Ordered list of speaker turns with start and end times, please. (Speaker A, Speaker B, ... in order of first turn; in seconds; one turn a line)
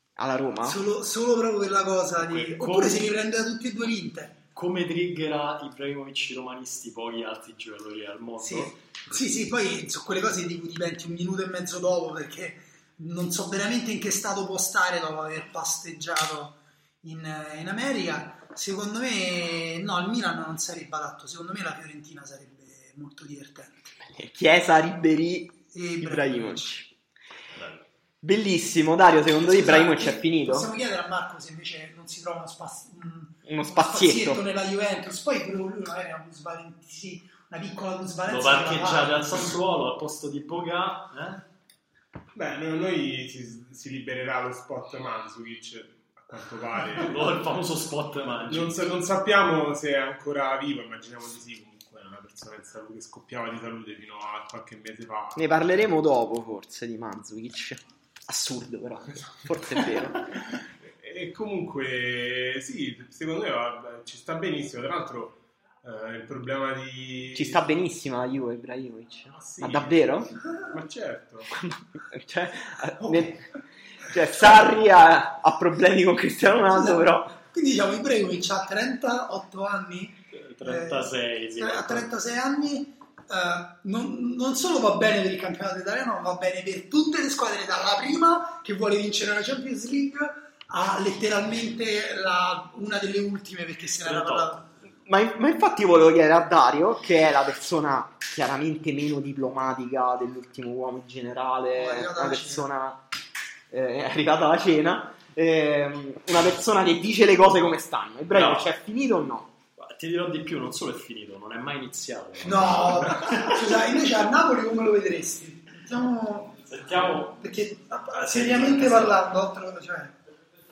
Speaker A: 0.2-0.8
Speaker B: 0.6-4.4
Speaker C: 2.2-3.1
Speaker C: 4.5-8.8
Speaker B: 8.4-24.0
Speaker A: 24.1-26.9
Speaker B: 25.7-26.7
Speaker C: 27.6-27.9
Speaker A: 28.2-30.7
Speaker B: 29.3-39.5
Speaker A: 33.5-34.4
Speaker C: 38.3-41.4
Speaker D: 42.4-47.4
Speaker C: 47.0-49.0
Speaker D: 48.5-55.7
Speaker A: 55.4-60.3
Speaker D: 60.9-67.7
Speaker A: 67.3-70.3
Speaker D: 69.3-71.5
Speaker A: 71.5-73.4
Speaker B: 73.0-73.4
Speaker A: 74.1-77.4
Speaker B: 76.7-94.7
Speaker C: 80.3-82.1
Speaker C: 94.0-94.5
Speaker A: 95.1-103.0
Speaker B: 101.7-102.7
Speaker A: 103.7-109.5
Speaker C: 108.3-108.7
Speaker C: 109.8-113.8
Speaker B: 112.4-116.7
Speaker C: 116.7-117.4
Speaker B: 117.4-120.2
Speaker C: 118.2-119.3